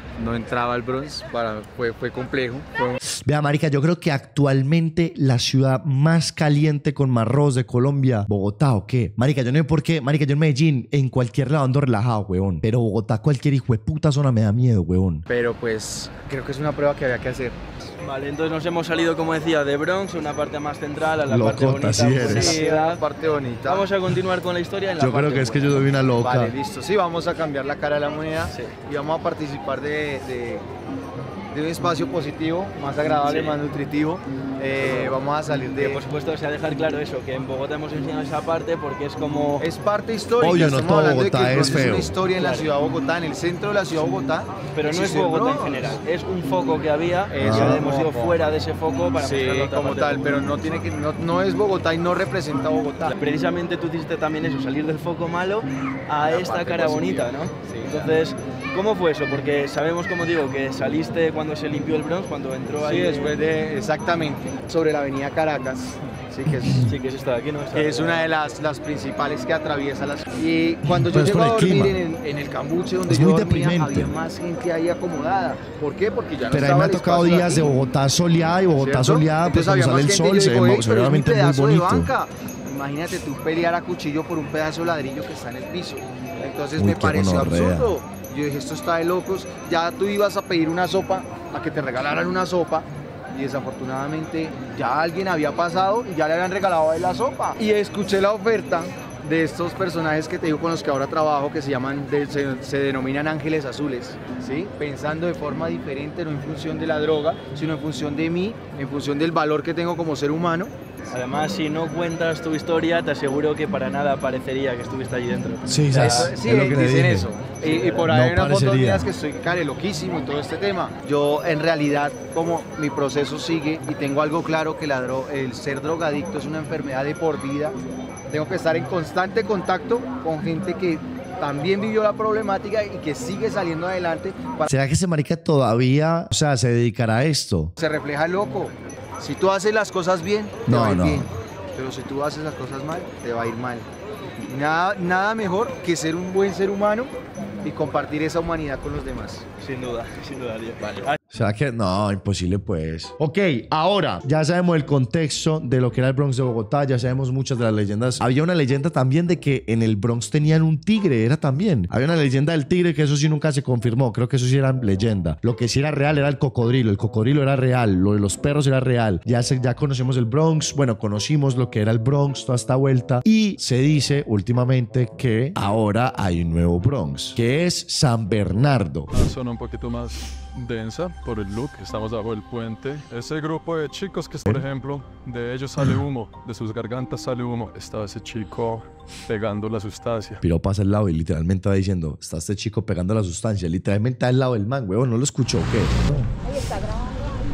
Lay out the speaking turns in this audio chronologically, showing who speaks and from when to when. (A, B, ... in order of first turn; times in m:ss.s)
0:00.2-0:03.0 A
0:03.1-0:15.3 B
0:15.3-0:17.6 A
0:18.0-0:23.0 C
0:21.3-0:22.5 B
0:22.2-0:23.9 A
0:23.7-0:25.8 C
0:25.0-0:26.5 B
0:26.2-0:30.7 A
0:28.5-0:28.8 C
0:31.5-0:36.0 A
0:33.2-0:33.6 C
0:34.8-0:39.7 C
0:39.6-0:46.0 A
0:40.4-0:42.1 B
0:42.3-0:42.7 C
0:44.7-0:50.6 C
0:47.3-0:48.4 A
0:47.5-0:47.9 B
0:49.2-0:53.2 A
0:53.0-1:03.4 C
0:56.2-0:58.2 A
1:02.8-1:06.9 A
1:06.8-1:08.3 C
1:07.7-1:17.7 A
1:10.9-1:12.0 B
1:13.1-1:14.1 B
1:16.5-1:22.1 B
1:18.8-1:50.7 A
1:26.8-1:27.9 B
1:51.1-1:56.2 C
1:55.7-1:57.3 B
1:55.9-2:14.7 A
1:57.6-1:58.1 C
1:58.1-1:59.1 B
2:14.7-2:17.7 B
2:17.8-2:23.9 A
2:20.7-2:21.3 B
2:24.4-2:27.1 A
2:27.6-2:29.5 A
2:29.6-2:31.2 C
2:31.3-2:59.1 B
2:59.1-3:10.4 D
3:10.4-3:16.3 B